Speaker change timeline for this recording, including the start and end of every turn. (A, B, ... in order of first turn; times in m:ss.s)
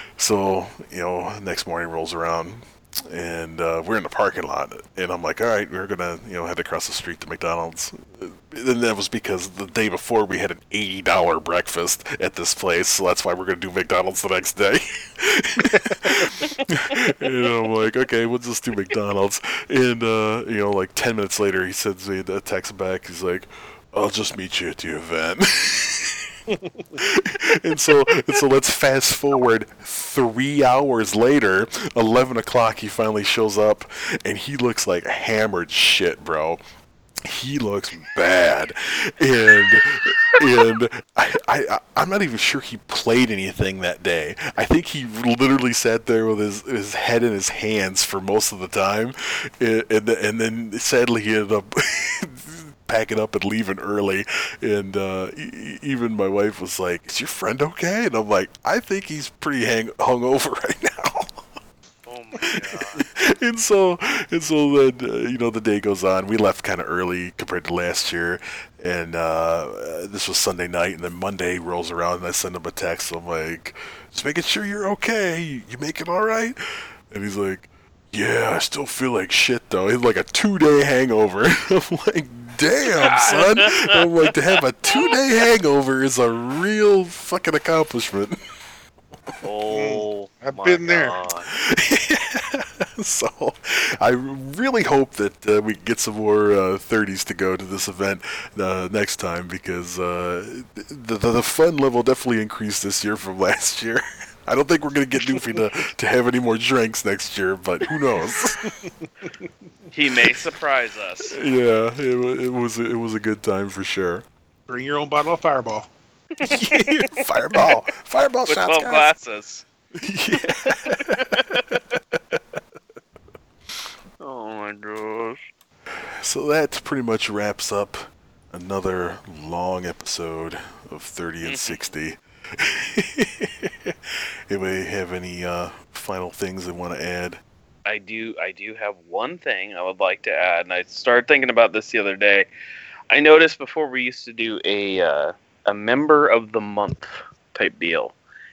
0:00.2-0:26.3 A
0:26.5-0:27.0 B
0:27.0-0:36.6 A
0:37.2-1:01.4 A
1:02.0-1:03.0 C
1:02.4-1:16.6 A
1:17.1-1:28.4 A
1:23.0-1:24.0 C
1:29.4-1:31.5 C
1:29.7-1:31.2 B
1:31.5-1:48.6 A
1:45.2-1:45.6 B
1:48.6-1:49.1 B
1:49.9-1:51.3 C
1:51.3-1:54.2 A
1:54.7-1:55.9 B
1:56.4-1:56.9 C
1:56.4-1:59.1 A
1:58.5-1:59.6 C
2:00.0-2:02.2 A
2:00.6-2:01.6 C
2:04.2-2:05.4 C
2:06.2-2:14.0 A
2:11.4-2:11.9 C
2:14.5-2:17.4 A
2:17.8-2:22.5 C
2:23.1-2:28.1 C